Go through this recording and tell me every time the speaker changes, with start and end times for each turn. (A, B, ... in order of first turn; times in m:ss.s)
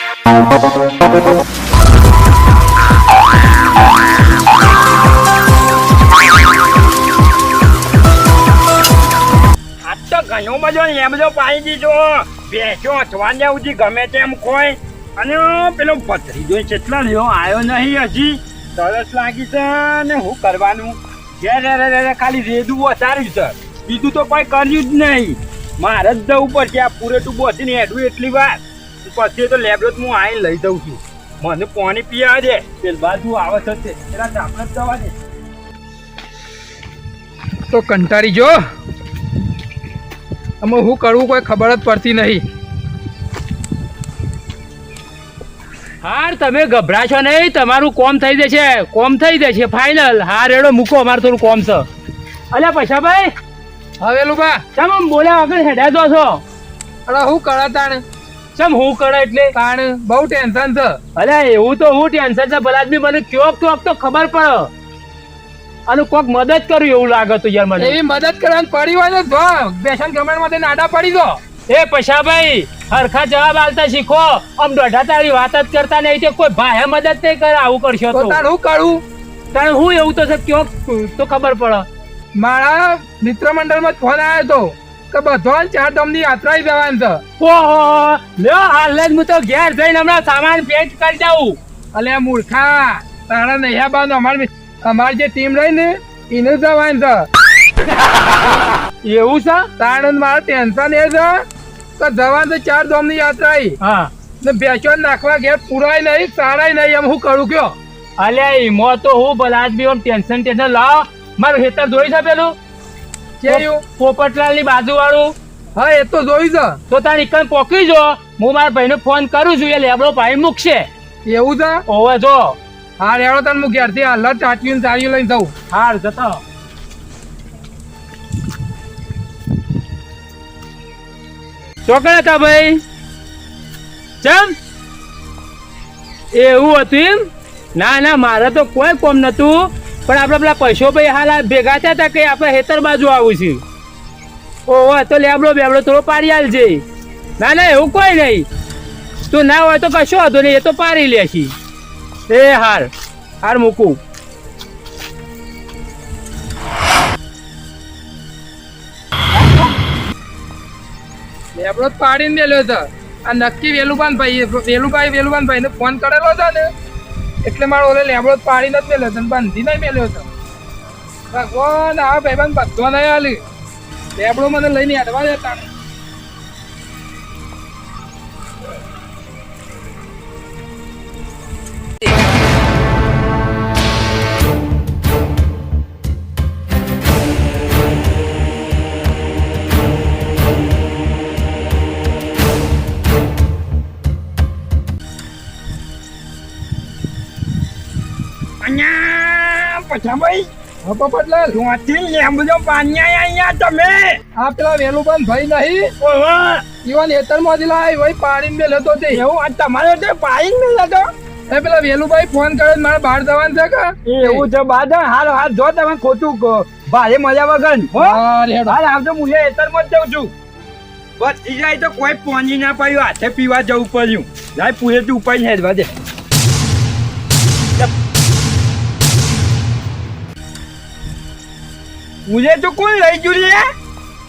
0:09.9-0:35.1 A
0:37.7-0:38.6 B
0:40.6-0:42.4 B
0:46.0-0:51.8 C
0:52.5-0:53.3 C
0:54.0-0:54.6 B
0:54.8-0:56.4 C
0:57.1-0:58.0 B
0:58.6-0:59.5 C
0:59.5-1:01.0 B
1:01.2-1:04.7 C
1:05.9-1:08.0 C
1:07.8-1:11.4 B
1:11.7-1:18.4 C
1:18.1-1:19.0 B
1:19.5-1:21.9 C
1:22.4-1:27.2 B
1:27.4-1:31.6 C
1:31.9-1:37.3 B
1:39.0-1:39.7 C
1:39.8-1:41.4 B
1:42.0-1:43.8 B
1:43.8-1:44.1 C
1:44.4-1:47.8 B
1:48.2-1:52.6 C
1:53.4-1:53.8 B
1:53.5-1:55.4 C
1:55.8-1:56.8 B
1:56.9-2:00.9 C
2:01.3-2:01.8 B
2:01.9-2:02.6 C
2:03.0-2:05.5 B
2:05.7-2:06.4 C
2:11.9-2:12.8 C
2:14.2-2:14.6 C
2:16.3-2:23.6 C
2:24.7-2:26.8 C
2:27.4-2:28.5 C
2:29.3-2:31.5 C
2:32.3-2:32.9 C
2:33.4-2:34.0 C
2:41.6-2:46.7 B
2:47.4-2:50.3 B
2:51.3-2:53.4 B
2:54.2-2:55.7 B
3:18.6-3:20.5 A
3:20.8-3:21.6 B
3:21.5-3:24.2 A
3:24.4-3:25.9 B
3:26.0-3:26.6 A
3:26.8-3:29.2 B
3:29.1-3:31.1 A
3:31.5-3:34.5 B
3:34.1-3:40.3 A
3:38.0-3:38.8 B
3:41.2-3:45.9 A
3:52.3-3:53.7 A